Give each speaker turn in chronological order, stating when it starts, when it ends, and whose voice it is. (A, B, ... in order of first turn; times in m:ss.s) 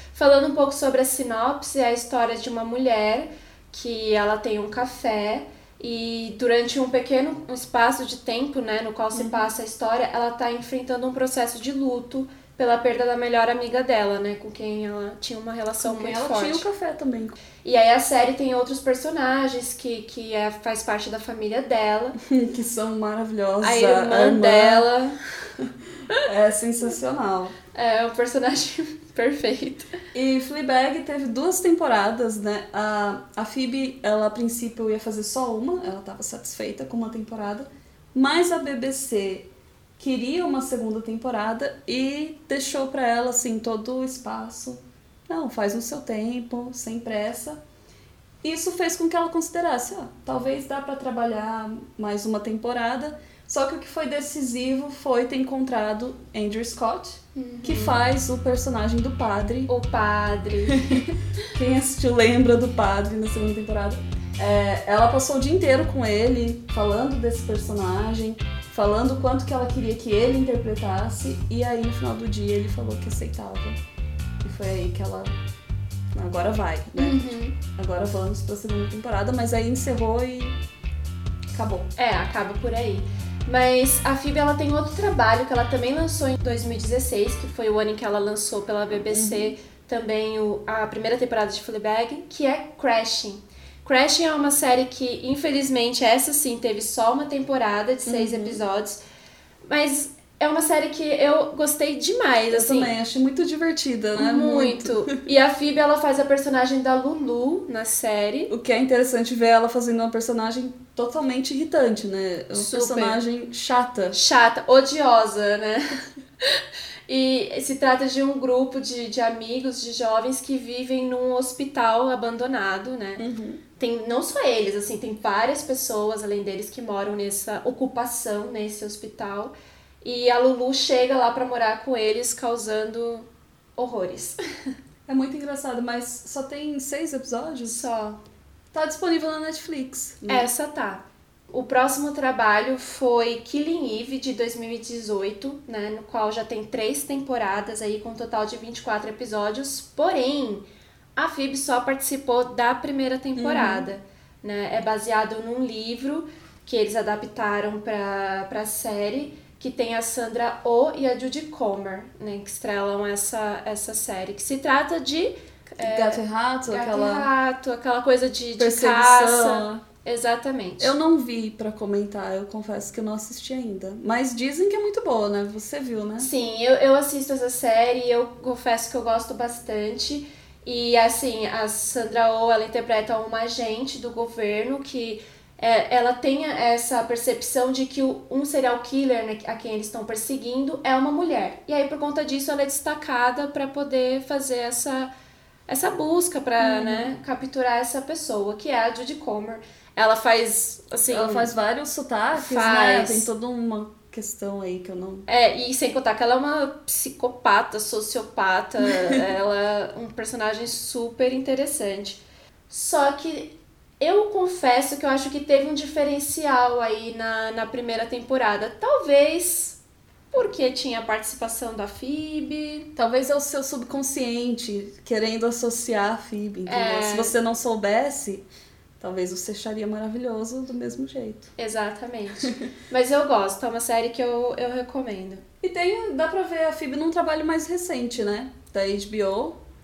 0:00.1-0:16.6 A
0:09.1-0:09.4 B
0:15.8-0:17.4 B
0:17.6-0:22.2 A
0:22.2-0:24.9 B
0:23.6-0:25.1 A
0:26.2-0:27.6 B
0:27.8-0:29.9 A
0:30.1-0:39.5 B
0:40.0-0:47.6 B
0:48.4-0:59.7 B
0:57.3-0:58.0 A
0:59.7-1:01.2 A
1:00.8-1:13.8 B
1:14.4-1:15.3 B
1:16.1-1:20.6 B
1:17.0-1:17.6 A
1:21.5-1:21.9 B
1:21.9-1:39.0 A
1:29.1-1:29.5 B
1:38.1-1:38.6 B
1:39.7-1:42.9 A
1:42.5-1:45.1 B
1:44.2-1:48.5 A
1:48.5-1:54.2 B
1:52.5-1:53.2 A
1:54.1-2:03.2 A
2:03.2-2:03.6 B
2:03.8-2:14.4 A
2:15.1-2:17.9 B
2:17.6-2:18.2 A
2:18.7-2:20.5 B
2:20.3-2:30.6 A
2:31.2-2:51.0 A
2:33.4-2:33.9 B
2:45.8-2:47.3 B
2:48.6-2:49.8 B
2:50.8-2:56.3 B
2:56.2-3:15.1 A
3:15.7-3:21.5 A
3:16.6-3:17.1 B
3:21.1-3:25.2 B
3:22.3-3:23.3 A
3:25.3-3:39.8 A
3:40.3-3:42.9 A
3:43.0-3:48.4 B
3:46.6-3:47.4 A
3:49.0-3:51.5 B
3:51.6-3:55.4 A
3:55.6-3:59.6 B